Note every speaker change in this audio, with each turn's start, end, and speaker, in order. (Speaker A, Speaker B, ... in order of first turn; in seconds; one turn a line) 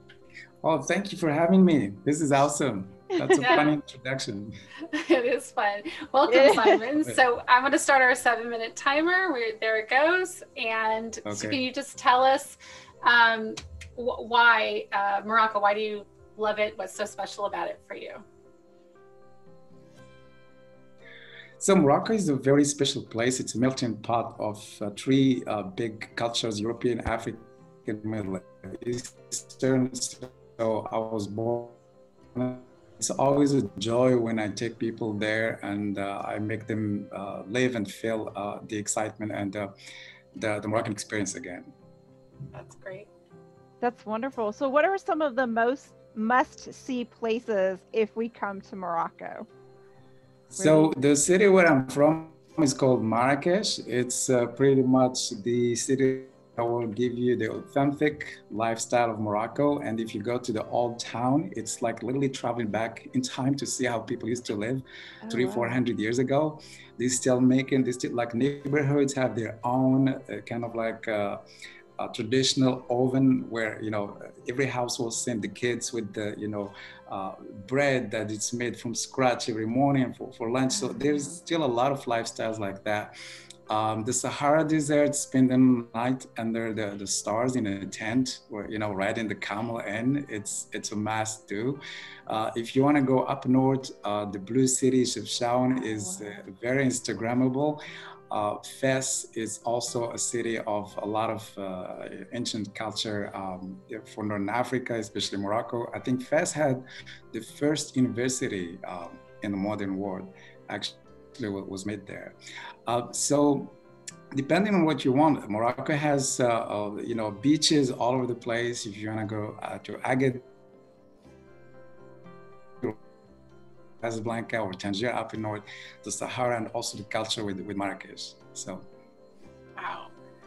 Speaker A: 0.6-4.6
Speaker B: 3.4-3.7
Speaker B: 4.9-18.2
Speaker C: 6.3-6.8
Speaker A: 11.2-11.6
Speaker A: 21.6-31.8
Speaker A: 32.4-39.7
Speaker A: 40.4-41.7
Speaker B: 42.5-43.1
Speaker C: 43.8-49.5
Speaker A: 50.5-71.4
Speaker C: 50.6-51.0
Speaker C: 65.3-65.8
Speaker A: 72.0-83.2
Speaker A: 83.7-113.8
Speaker A: 114.3-120.5
Speaker A: 124.0-128.9
Speaker B: 129.8-130.1